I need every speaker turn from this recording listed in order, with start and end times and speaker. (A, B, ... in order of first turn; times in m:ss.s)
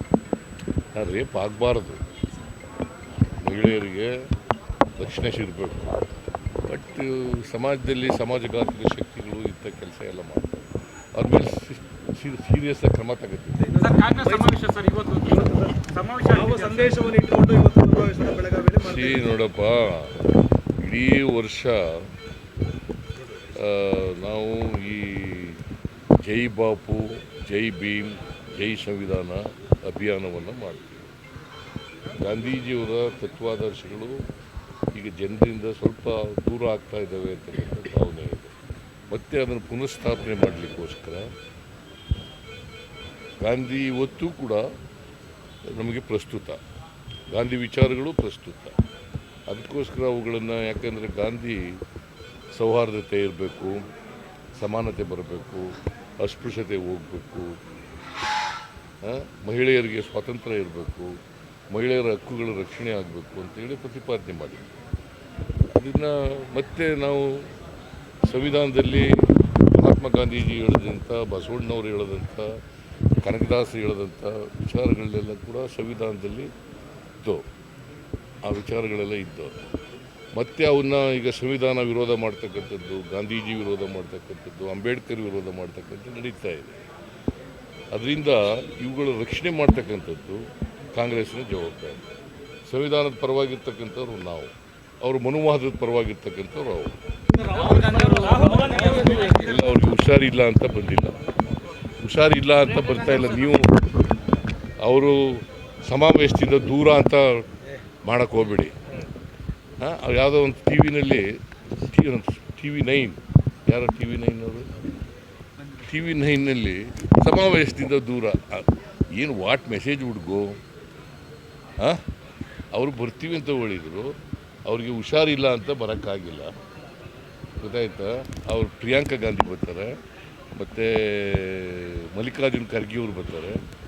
0:00.9-0:02.0 A
0:03.4-0:04.2 A
0:05.0-0:06.0 A
0:06.7-0:10.5 A
0:11.1-0:13.6 A
0:13.6-0:14.6 B
0:13.8-0:17.0 C
0:15.2-0:19.4 B
0:18.8-0:20.2 A
0:20.8-0:22.0 A
0:23.5-0:25.6 A
0:26.2-0:31.1 A
0:32.2-0:34.2 A
0:34.9-0:38.5 A
0:39.1-0:41.3 A
0:43.4-0:44.6 A
0:45.6-0:46.6 A
0:47.3-0:48.8 A
0:49.5-0:51.7 A
0:52.5-0:53.8 A
0:54.6-0:57.6 A
0:59.0-1:01.1 A
1:01.7-1:04.6 A
1:05.7-1:07.5 A
1:08.3-1:09.1 A
1:09.7-1:12.5 A
1:13.2-1:16.5 A
1:18.4-1:19.5 A
1:20.4-1:26.8 A
1:27.9-1:32.0 A
1:32.7-1:36.9 A
1:37.4-1:39.4 C
1:39.3-1:41.2 A
1:42.0-1:43.8 A
1:44.8-1:47.4 A
1:48.0-1:48.8 A
1:49.8-1:54.7 A
1:55.7-2:00.6 A
2:01.8-2:02.0 A
2:02.7-2:06.5 A
2:07.6-2:10.0 A
2:10.5-2:13.6 A